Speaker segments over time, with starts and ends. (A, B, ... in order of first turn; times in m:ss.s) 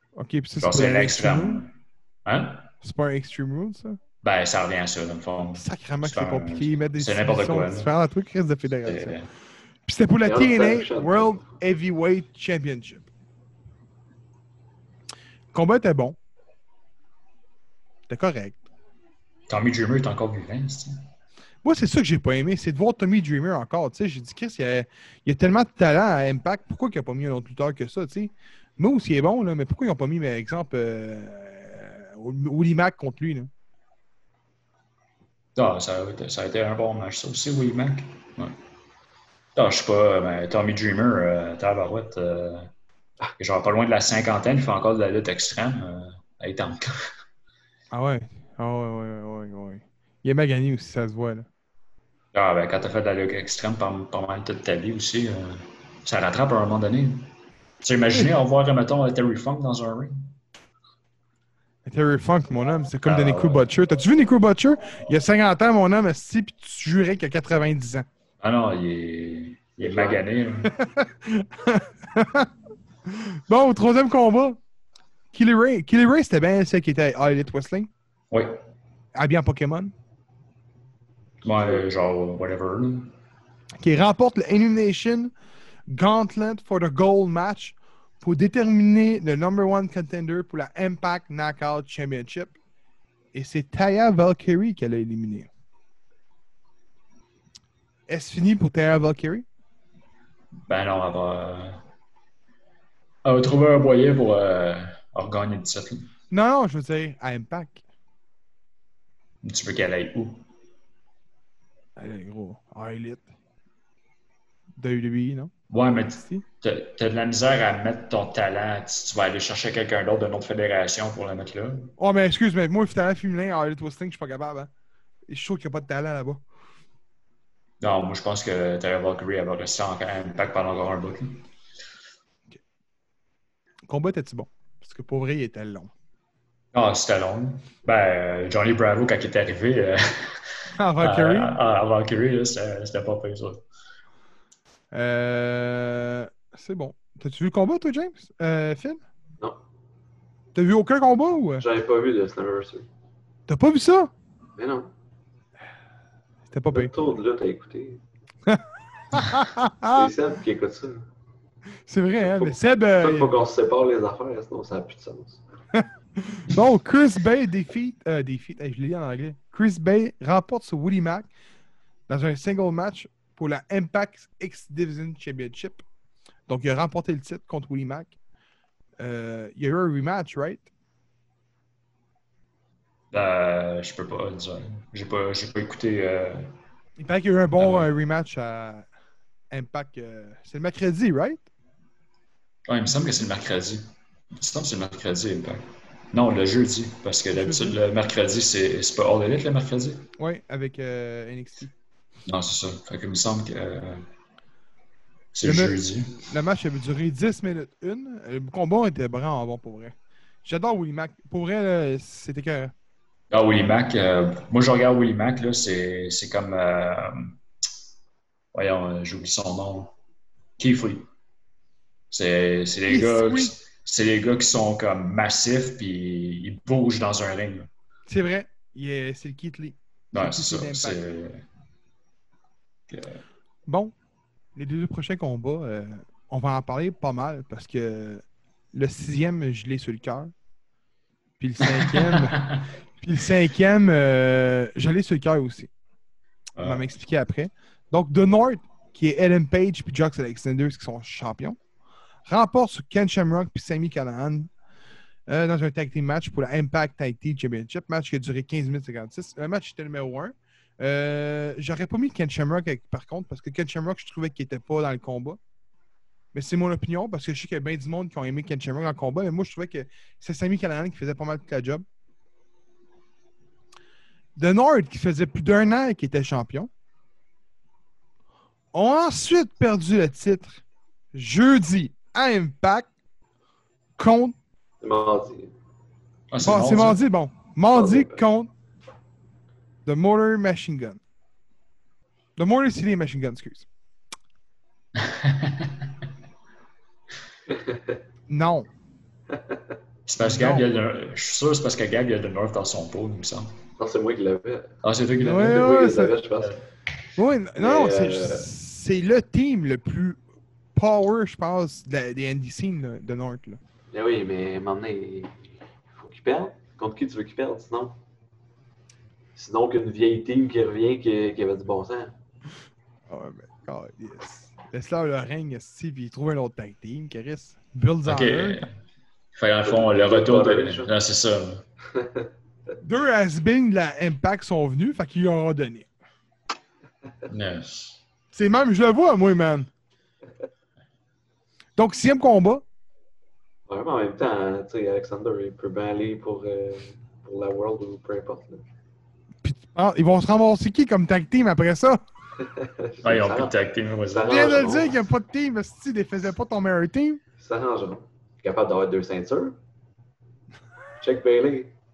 0:00.2-0:01.6 A
0:00.6-0:01.7 B
0:02.2-0:02.7 B
0:02.8-0:04.0 A
0:04.2-0:07.9 B
0:05.6-0:09.2 A
0:08.8-0:09.3 B
0:09.8-0:13.1 A
0:10.2-0:11.5 C
0:15.5-0:16.2 A
0:18.1-0:18.6 A
0:19.5-0:21.0 B
0:21.6-0:33.5 A
0:35.6-0:38.6 B
0:39.6-0:42.7 B
0:43.4-0:46.9 B
0:47.9-0:51.5 A
0:52.3-0:57.3 B
0:57.8-1:00.3 B
1:01.8-1:08.0 A
1:03.0-1:03.7 B
1:08.4-1:10.7 B
1:09.8-1:10.2 C
1:10.6-1:12.5 A
1:13.0-1:14.6 A
1:15.3-1:17.9 A
1:18.3-1:18.6 B
1:19.1-1:19.9 A
1:21.4-1:23.1 B
1:23.8-1:25.3 A
1:25.9-1:32.6 A
1:33.3-1:35.5 A
1:38.1-1:39.4 A
1:40.7-1:41.8 B
1:43.2-1:46.1 B
1:46.3-1:47.8 A
1:49.4-1:50.4 B
1:52.0-1:53.3 A
1:54.8-1:55.5 A
1:55.7-2:01.9 B
2:02.0-2:04.7 A
2:05.3-2:06.4 A
2:07.8-2:11.4 B
2:13.9-2:15.9 A
2:16.7-2:23.6 B
2:20.8-2:21.6 A
2:24.9-2:29.0 A
2:30.5-2:31.6 A
2:31.6-2:32.9 C
2:33.5-2:34.1 A
2:34.6-2:34.9 C
2:36.5-2:36.9 A
2:36.7-2:38.0 C
2:38.4-2:40.1 A
2:39.9-2:41.1 C
2:41.9-2:43.3 A
2:42.2-2:45.4 C
2:45.7-2:51.3 A
2:52.1-2:55.8 A
2:56.5-2:58.1 A
2:59.0-3:00.7 A
3:03.1-3:06.5 B
3:07.0-3:08.9 A
3:07.6-3:07.9 B
3:09.5-3:11.4 A
3:12.7-3:20.1 B
3:17.3-3:17.8 A
3:20.2-3:21.7 A
3:22.3-3:24.0 B
3:25.3-3:26.2 B
3:25.4-3:32.7 A
3:33.3-3:37.4 B
3:38.5-3:39.9 B
3:40.6-3:41.1 B
3:42.1-3:47.7 B
3:42.9-3:43.5 A
3:48.1-3:51.0 A
3:50.1-3:51.4 B
3:52.9-3:53.2 B
3:53.7-3:53.9 A
3:54.5-4:00.3 A
4:01.4-4:02.5 A
4:01.7-4:02.6 B
4:03.0-4:05.7 A
4:06.6-4:06.9 B
4:06.6-4:11.6 A
4:12.3-4:14.5 A
4:15.3-4:25.4 A
4:26.3-4:31.8 A
4:34.4-4:36.7 A
4:38.7-4:40.6 A
4:41.1-4:42.9 A
4:44.0-4:44.4 A
4:44.8-4:45.5 C
4:46.3-4:47.0 B
4:46.4-4:48.5 A
4:47.7-4:48.2 C
4:49.8-4:51.0 A
4:52.4-4:53.7 A
4:55.0-4:55.9 B
4:57.5-4:58.0 C
4:58.3-4:58.7 A
4:59.3-4:59.7 C
5:00.1-5:03.6 B
5:00.2-5:00.7 A
5:03.8-5:06.6 C
5:04.8-5:05.7 B
5:05.2-5:06.2 A
5:07.2-5:10.2 A
5:07.6-5:08.5 C
5:10.7-5:13.6 A
5:13.9-5:18.0 C
5:19.3-5:22.1 C
5:23.1-5:28.6 A
5:28.0-5:28.7 B
5:29.3-5:31.6 B
5:29.6-5:30.9 C
5:31.9-5:32.3 C
5:32.8-5:35.9 A
5:37.3-5:38.0 B
5:38.3-5:39.7 A
5:41.8-5:42.6 A
5:43.7-5:48.6 C
5:49.4-5:52.0 A
5:52.4-5:53.5 C
5:53.0-5:54.6 B
5:54.0-5:55.0 C
5:54.2-5:57.2 A
5:57.4-5:59.6 C
6:01.0-6:01.7 C